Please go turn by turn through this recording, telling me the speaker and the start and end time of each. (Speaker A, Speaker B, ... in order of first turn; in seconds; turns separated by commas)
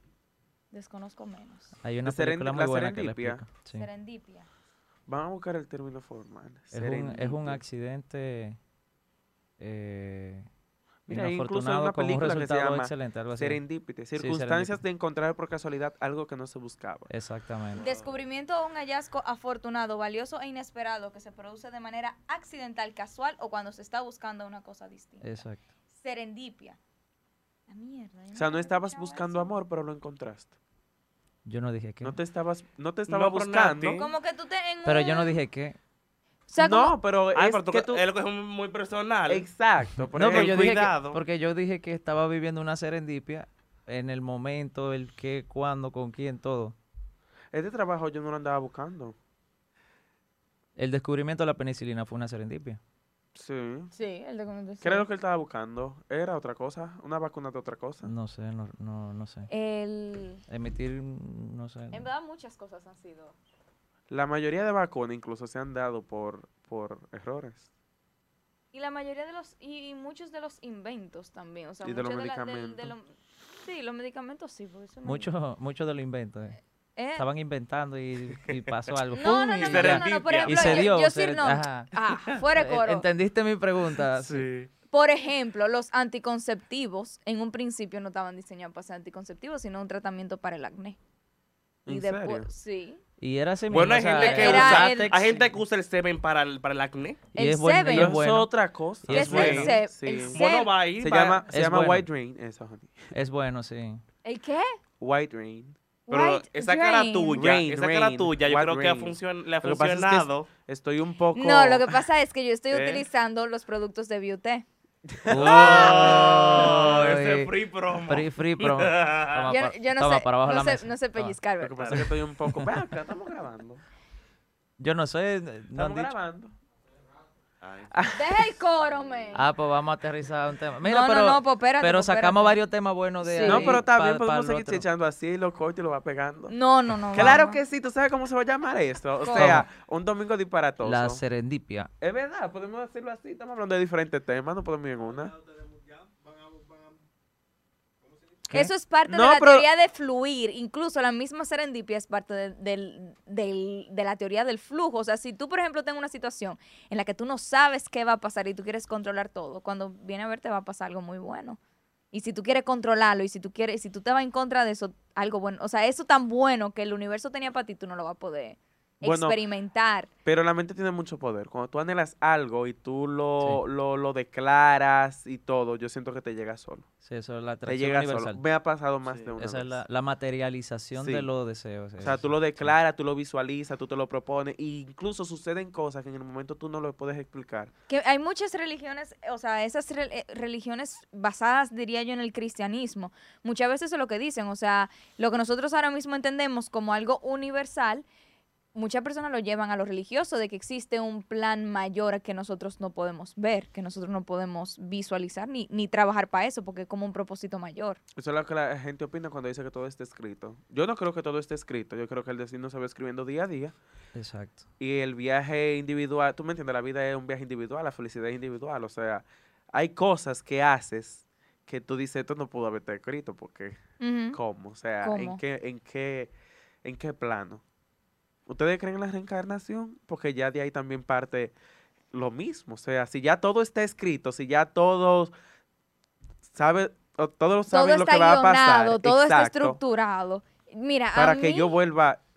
Speaker A: 0.7-1.7, Speaker B: 1.8-3.9, Speaker C: 2.0-3.4, Speaker A: 3.6-4.5, Speaker C: 5.1-7.6, Speaker B: 6.7-8.6, Speaker B: 9.6-10.4, Speaker C: 11.1-17.1, Speaker B: 11.1-13.6, Speaker B: 14.1-14.8, Speaker B: 17.1-17.8, Speaker D: 17.7-18.1, Speaker A: 17.8-25.4, Speaker B: 25.2-25.6, Speaker A: 26.0-26.8, Speaker A: 27.7-29.5, Speaker C: 28.3-30.5, Speaker B: 31.4-32.2, Speaker C: 32.0-34.0, Speaker D: 33.1-34.1, Speaker A: 33.9-35.4, Speaker B: 34.8-35.8, Speaker A: 36.5-37.0, Speaker C: 36.6-38.0, Speaker D: 37.3-39.5, Speaker C: 39.3-40.9, Speaker B: 40.1-46.8, Speaker D: 40.1-41.2, Speaker C: 47.5-49.1, Speaker B: 50.8-52.8, Speaker C: 53.3-53.9, Speaker A: 53.9-55.1, Speaker C: 54.8-58.1, Speaker B: 58.0-59.5, Speaker A: 59.5-60.4, Speaker B: 60.5-62.0, Speaker A: 61.9-63.3, Speaker C: 64.1-67.7, Speaker A: 68.7-73.1, Speaker C: 71.8-72.9, Speaker A: 73.6-75.3, Speaker B: 75.0-76.6, Speaker A: 77.0-77.2, Speaker B: 77.2-84.4, Speaker A: 79.1-83.1, Speaker D: 79.2-81.0, Speaker D: 84.1-84.7, Speaker A: 84.9-91.0, Speaker C: 91.8-92.5, Speaker A: 91.8-93.0, Speaker B: 93.2-95.6, Speaker D: 93.7-97.2, Speaker A: 94.1-95.3, Speaker B: 97.3-98.5, Speaker A: 97.3-98.1, Speaker C: 97.9-103.0, Speaker B: 99.0-99.6, Speaker A: 99.1-100.7, Speaker D: 99.1-99.8, Speaker D: 100.3-101.4, Speaker B: 101.5-102.1, Speaker B: 103.1-104.0, Speaker A: 104.2-104.7, Speaker C: 105.0-105.8, Speaker A: 106.1-107.5, Speaker D: 106.1-110.5, Speaker C: 107.3-111.9, Speaker A: 111.3-114.6, Speaker C: 112.7-113.0, Speaker C: 115.1-116.7, Speaker B: 115.3-121.3, Speaker D: 115.3-119.5, Speaker A: 119.5-121.9, Speaker C: 121.6-123.8, Speaker D: 121.8-122.1, Speaker B: 121.9-122.8, Speaker B: 124.8-126.1, Speaker C: 125.8-126.5, Speaker D: 127.6-128.0, Speaker C: 127.9-128.5, Speaker A: 128.1-129.5, Speaker B: 129.3-134.8, Speaker A: 130.8-132.6, Speaker A: 133.2-133.8, Speaker C: 133.4-136.5, Speaker A: 136.5-137.6, Speaker C: 137.1-141.2, Speaker A: 139.2-139.6, Speaker B: 139.3-139.7, Speaker B: 140.8-141.9, Speaker C: 142.0-145.4, Speaker A: 148.5-161.6, Speaker C: 149.1-149.7, Speaker A: 162.1-170.1, Speaker C: 169.0-169.4, Speaker C: 170.2-176.8, Speaker B: 177.0-178.4, Speaker C: 177.6-179.8, Speaker D: 179.1-179.3, Speaker B: 179.3-182.7, Speaker C: 181.0-181.3, Speaker C: 182.0-187.7, Speaker A: 187.9-198.0, Speaker A: 198.7-208.0, Speaker C: 208.2-213.7, Speaker B: 214.1-214.6, Speaker C: 214.8-227.6, Speaker A: 224.0-224.4, Speaker A: 225.0-225.4, Speaker C: 228.5-231.5, Speaker C: 232.1-235.3, Speaker C: 236.4-239.8, Speaker A: 237.7-241.8, Speaker C: 241.1-242.2